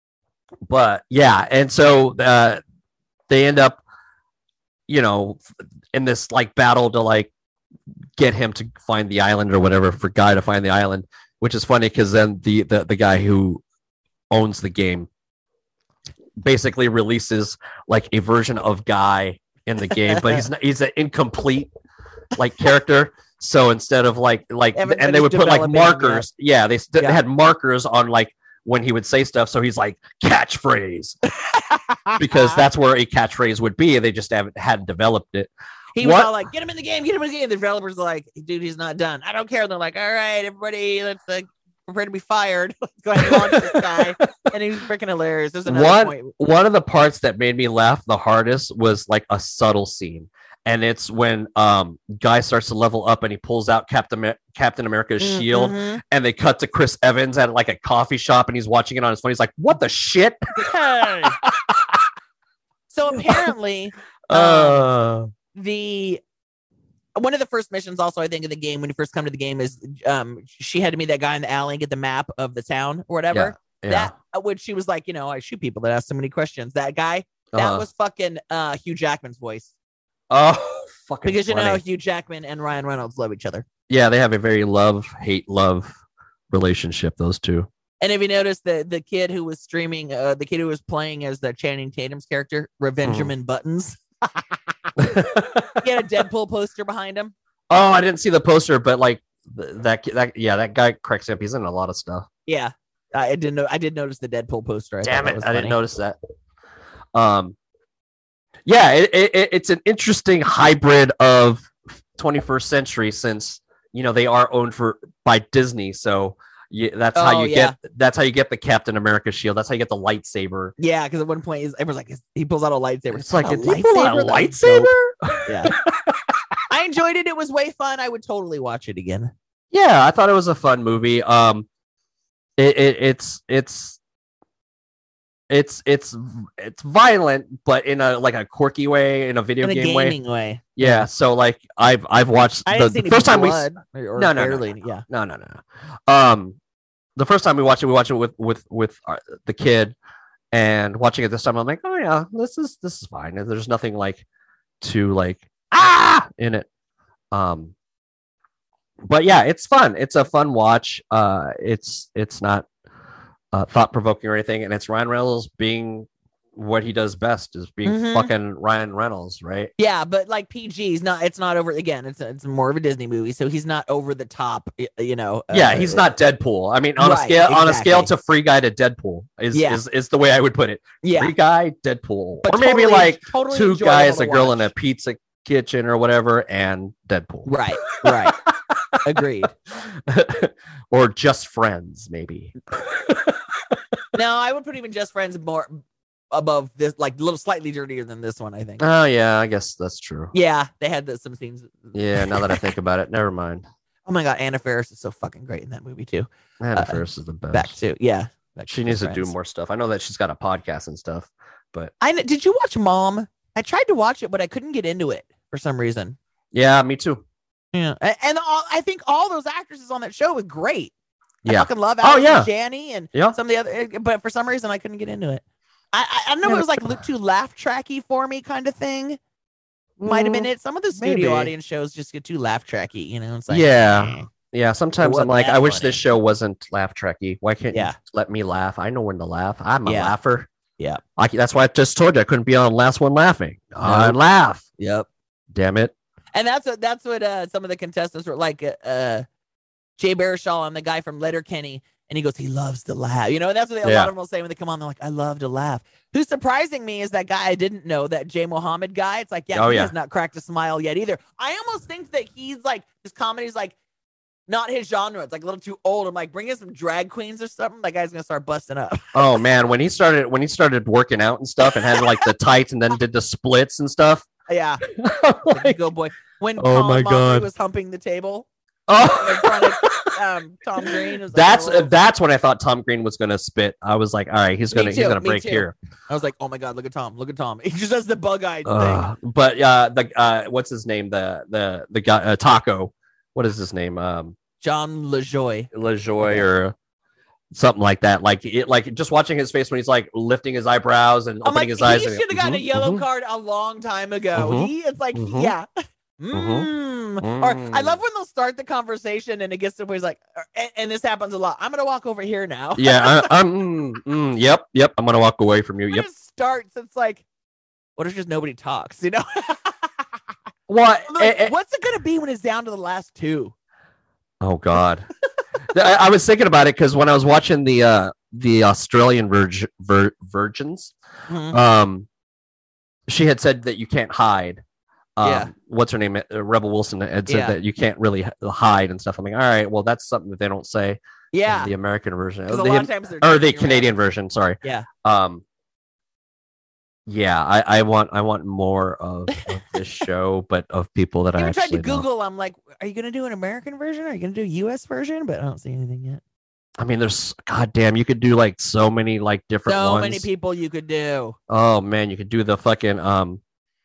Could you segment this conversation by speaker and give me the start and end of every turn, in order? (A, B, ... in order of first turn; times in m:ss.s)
0:00.7-0:02.6 A
0:03.3-0:03.8 A
0:04.9-0:07.3 A
0:08.2-0:13.6 A
0:14.3-0:15.1 A
0:16.4-0:21.7 A
0:20.1-0:20.4 B
0:22.3-0:31.2 A
0:24.7-0:26.3 B
0:31.4-0:32.6 B
0:32.2-0:36.4 A
0:35.9-0:46.3 B
0:43.2-0:44.2 A
0:45.7-1:02.0 A
0:55.2-0:56.0 B
1:00.6-1:01.4 B
1:02.9-1:04.9 B
1:03.2-1:03.5 A
1:04.3-1:05.3 A
1:05.5-1:06.2 B
1:07.2-1:19.7 B
1:13.3-1:14.1 A
1:17.5-1:17.8 A
1:20.3-1:21.8 A
1:21.2-1:23.6 B
1:23.9-1:26.0 A
1:26.5-1:27.7 A
1:28.0-1:34.6 B
1:33.0-1:33.3 A
1:35.0-1:35.8 A
1:35.8-1:37.3 B
1:37.7-1:42.3 A
1:42.5-1:45.8 B
1:45.0-1:46.2 A
1:47.1-1:47.6 A
1:48.6-2:00.7 A
1:57.1-1:57.8 B
2:00.8-2:04.9 B
2:03.1-2:06.3 A
2:05.4-2:05.7 B
2:06.7-2:09.3 B
2:09.7-2:11.7 A
2:12.6-2:14.0 A
2:15.5-2:20.2 A
2:19.6-2:21.1 B
2:20.8-2:26.6 A
2:22.6-2:25.0 B
2:27.2-2:29.9 A
2:30.5-2:34.2 A
2:34.8-2:36.7 A
2:37.3-2:37.7 A
2:39.0-2:42.7 A
2:43.5-2:49.7 A
2:47.8-2:48.3 B
2:49.8-2:56.0 B
2:55.5-3:09.0 A
2:57.0-2:58.1 B
2:59.5-2:59.8 B
3:01.0-3:01.3 B
3:02.4-3:04.7 B
3:07.4-3:08.4 B
3:09.0-3:09.5 B
3:09.8-3:13.4 A
3:14.1-3:18.8 B
3:18.8-3:20.3 A
3:20.3-3:22.7 B
3:21.9-3:23.6 A
3:24.0-3:27.0 B
3:26.6-3:27.8 A
3:27.5-3:29.3 B
3:28.7-3:31.9 A
3:32.0-3:36.2 B
3:36.5-3:37.2 A
3:37.7-3:40.9 B
3:41.4-3:42.5 A
3:41.4-3:49.2 B
3:46.4-3:47.0 A
3:50.0-3:51.5 A
3:50.0-3:54.3 B
3:53.5-4:00.5 A
3:55.0-3:56.0 B
3:59.8-4:00.1 B
4:01.2-4:04.6 A
4:03.8-4:04.2 B
4:04.8-4:05.1 B
4:05.5-4:05.9 A
4:06.3-4:09.2 B
4:10.0-4:23.7 B
4:13.8-4:14.1 A
4:19.5-4:19.9 A
4:24.5-4:29.1 B
4:29.1-4:34.3 A
4:31.8-4:32.2 B
4:34.5-4:34.8 B
4:34.8-4:35.8 A
4:35.5-4:38.5 B
4:36.6-4:37.5 A
4:38.9-4:40.1 A
4:39.0-4:41.9 B
4:40.8-4:45.7 A
4:44.7-4:49.0 B
4:48.6-4:54.4 A
4:54.6-4:55.7 B
4:55.7-4:56.7 A
4:56.2-4:56.5 B
4:57.5-5:03.0 A
5:01.4-5:05.7 B
5:04.3-5:05.5 A
5:06.2-5:13.3 B
5:06.3-5:06.7 A
5:07.2-5:08.0 A
5:12.8-5:16.0 A
5:15.9-5:17.2 B
5:18.0-5:20.1 B
5:20.7-5:21.5 A
5:21.1-5:23.5 B
5:24.4-5:25.1 A
5:25.7-5:30.9 A
5:31.3-5:31.6 B
5:31.5-5:32.1 A
5:33.1-5:34.6 A
5:35.2-5:45.4 A
5:35.2-5:35.5 B
5:37.3-5:37.6 B
5:41.3-5:41.7 B
5:42.5-5:43.9 B
5:44.6-5:44.9 B
5:47.1-5:52.0 A
5:51.4-5:56.2 B
5:56.8-6:00.2 A
5:59.6-6:01.4 B
6:01.5-6:03.4 A